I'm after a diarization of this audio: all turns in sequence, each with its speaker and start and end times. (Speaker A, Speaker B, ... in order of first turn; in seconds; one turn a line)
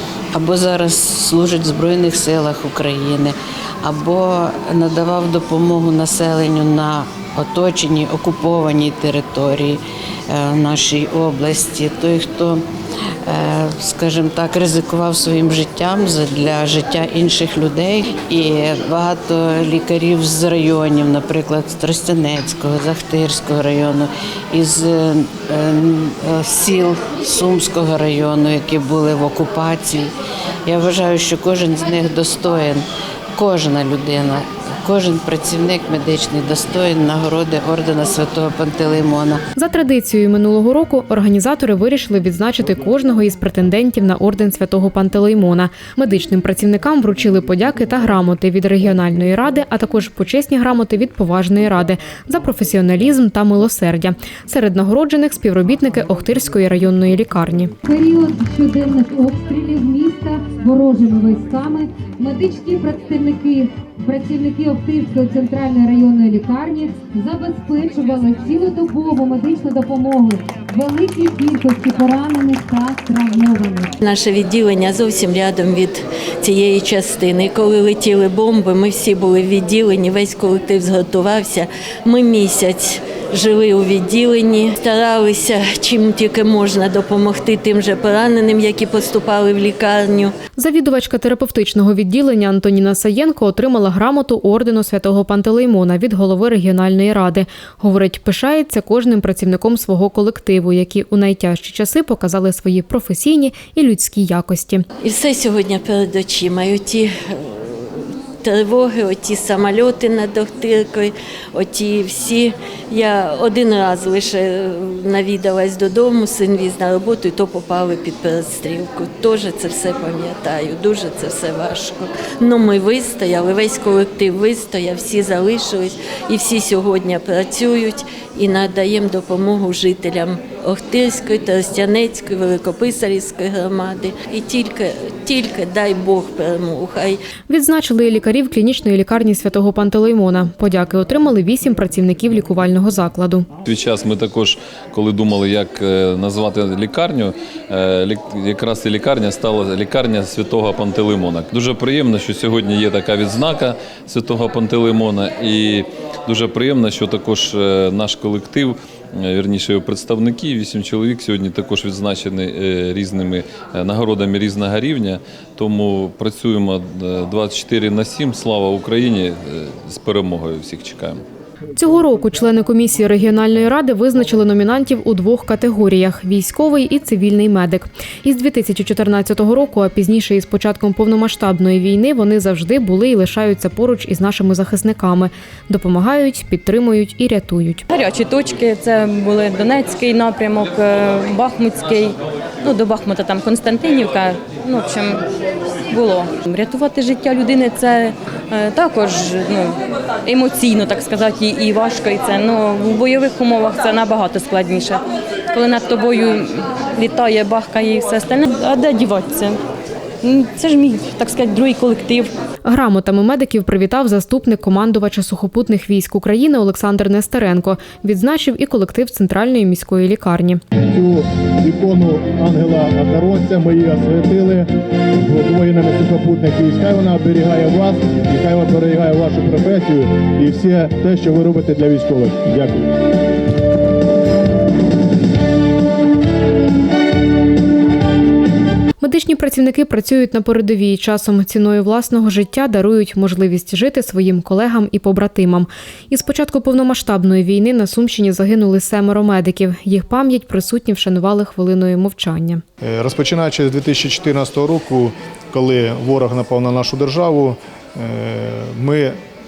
Speaker A: 0.3-12.7
Speaker A: 13.3-30.1
Speaker A: 30.7-39.4
Speaker B: 39.6-57.7
Speaker C: 57.9-73.9
Speaker D: 74.0-90.3
Speaker B: 90.6-104.8
Speaker D: 105.0-137.2
Speaker B: 137.5-143.5
Speaker E: 143.7-171.2
Speaker B: 171.8-187.9
Speaker F: 187.9-195.2
Speaker F: 195.9-205.0
Speaker F: 205.5-209.6
Speaker F: 210.2-212.3
Speaker B: 212.7-220.6
Speaker G: 220.9-232.9
Speaker B: 239.0-252.6
Speaker G: 252.8-259.2